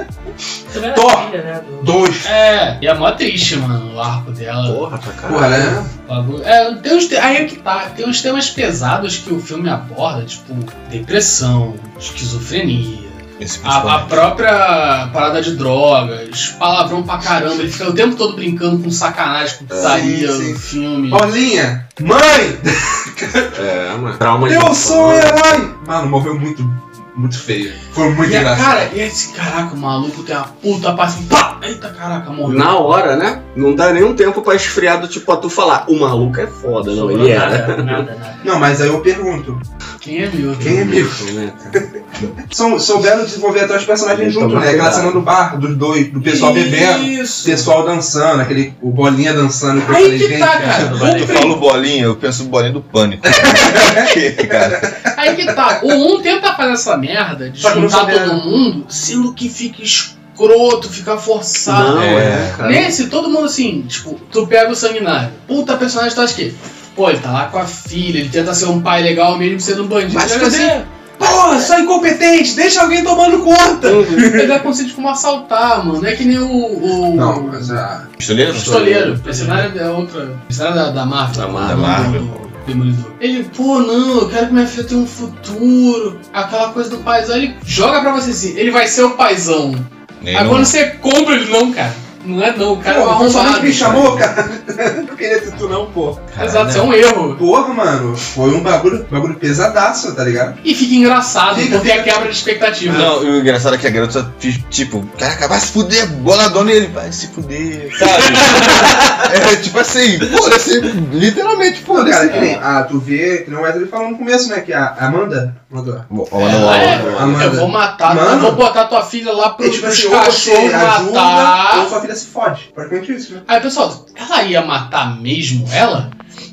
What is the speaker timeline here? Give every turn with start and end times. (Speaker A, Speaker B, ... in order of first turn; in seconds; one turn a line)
Speaker A: 0.7-2.0
Speaker B: 0.9-2.3
Speaker C: 2.2-4.9
Speaker D: 4.7-5.8
Speaker B: 5.3-5.9
Speaker C: 6.0-21.3
Speaker E: 13.4-14.3
Speaker D: 19.7-20.1
Speaker B: 19.8-23.5
Speaker D: 23.5-25.5
Speaker B: 24.4-28.9
Speaker C: 28.2-32.9
Speaker D: 32.4-38.0
Speaker A: 36.9-38.5
Speaker B: 38.4-39.6
Speaker C: 40.0-41.0
Speaker D: 40.6-42.0
Speaker B: 40.6-41.2
Speaker B: 42.5-51.2
Speaker D: 44.1-45.2
Speaker C: 46.2-47.7
Speaker C: 49.8-51.6
Speaker A: 50.5-51.5
Speaker E: 51.0-55.0
Speaker B: 53.3-55.1
Speaker C: 55.1-77.8
Speaker B: 57.6-58.4
Speaker D: 61.7-63.0
Speaker E: 61.9-62.6
Speaker E: 70.1-71.7
Speaker D: 73.8-74.4
Speaker B: 77.1-78.1
Speaker E: 78.2-79.2
Speaker C: 78.5-94.3
Speaker D: 78.7-79.7
Speaker D: 81.3-82.1
Speaker E: 81.6-82.5
Speaker E: 90.2-90.8
Speaker B: 92.8-96.4
Speaker E: 96.3-96.9
Speaker C: 96.4-97.4
Speaker B: 97.3-100.6
Speaker C: 100.6-103.2
Speaker B: 101.5-102.3
Speaker E: 102.9-112.6
Speaker B: 111.9-118.6
Speaker E: 116.1-117.4
Speaker C: 116.4-121.9
Speaker D: 116.4-117.6
Speaker B: 119.6-123.5
Speaker C: 123.5-126.1